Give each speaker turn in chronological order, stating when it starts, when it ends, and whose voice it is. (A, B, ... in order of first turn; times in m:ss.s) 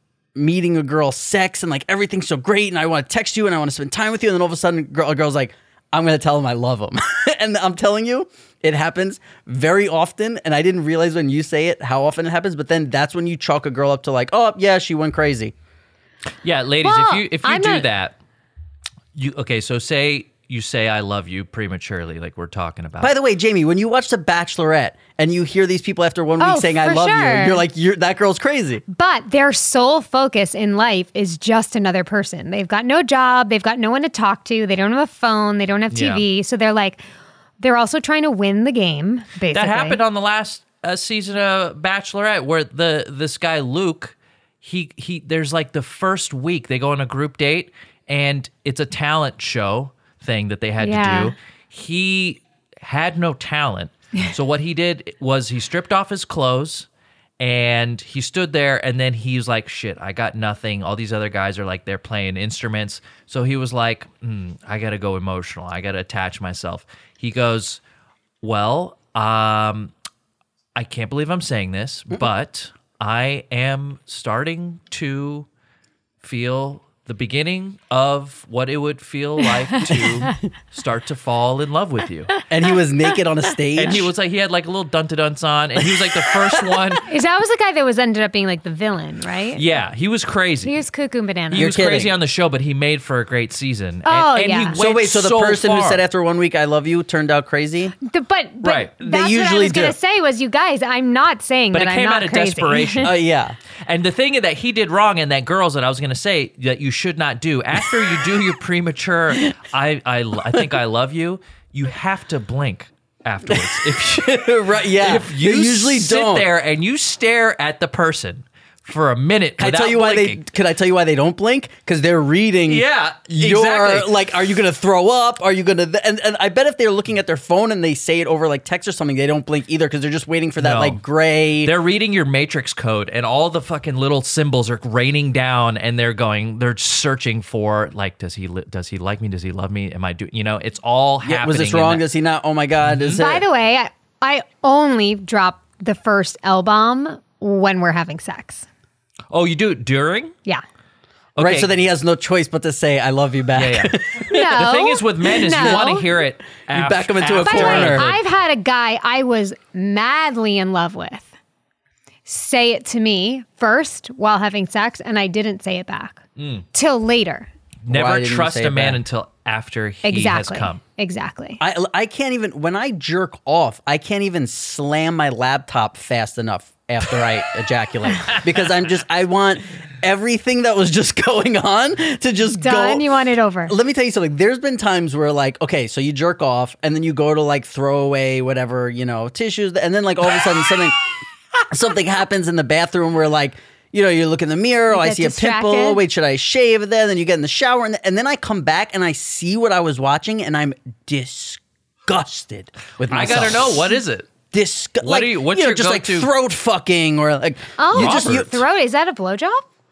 0:00.4-0:15.5 A
0:16.4-0:18.2 B
0:16.8-0:17.9 C
0:19.1-0:23.1 B
0:23.0-0:28.8 A
0:26.4-0:27.6 C
0:28.9-0:37.0 C
0:35.9-0:36.2 B
0:37.6-0:40.0 C
0:39.5-0:56.9 B
0:50.8-0:51.4 C
0:57.4-1:07.8 B
1:08.4-1:09.9 B
1:10.8-1:15.5 B
1:16.2-1:22.4 B
1:22.5-1:24.1 A
1:23.8-1:27.1 B
1:25.8-1:26.8 A
1:27.0-1:29.6 C
1:29.6-1:30.8 B
1:30.6-1:31.7 C
1:31.5-1:36.0 B
1:31.6-1:32.1 A
1:34.0-1:34.8 C
1:34.8-1:38.0 A
1:38.0-1:43.1 C
1:38.6-1:39.0 B
1:39.0-1:40.0 A
1:41.7-1:43.2 B
1:43.0-1:43.6 A
1:43.9-2:00.4 B
1:53.5-1:56.5 A
1:59.6-2:11.7 A
2:02.7-2:04.1 B
2:10.6-2:11.0 B
2:11.6-2:22.0 B
2:21.2-2:23.4 A
2:22.8-2:23.2 B
2:23.2-2:28.7 C
2:29.3-2:30.4 B
2:31.4-2:31.7 B
2:31.4-2:34.7 A
2:33.6-2:38.2 B
2:34.3-2:36.0 C
2:35.5-2:36.0 A
2:36.7-2:38.1 A
2:37.4-2:41.3 C
2:42.3-2:47.5 C
2:46.4-2:46.7 B
2:47.8-2:50.8 B
2:47.9-2:49.0 A
2:50.0-2:51.6 C
2:51.6-3:03.1 A
2:58.2-2:58.6 B
3:02.6-3:03.8 C
3:03.7-3:11.0 A
3:11.7-3:24.0 A
3:14.9-3:16.0 C
3:23.0-3:24.3 B
3:24.5-3:28.6 A
3:25.0-3:26.3 B
3:27.8-3:29.6 C
3:27.9-3:28.6 B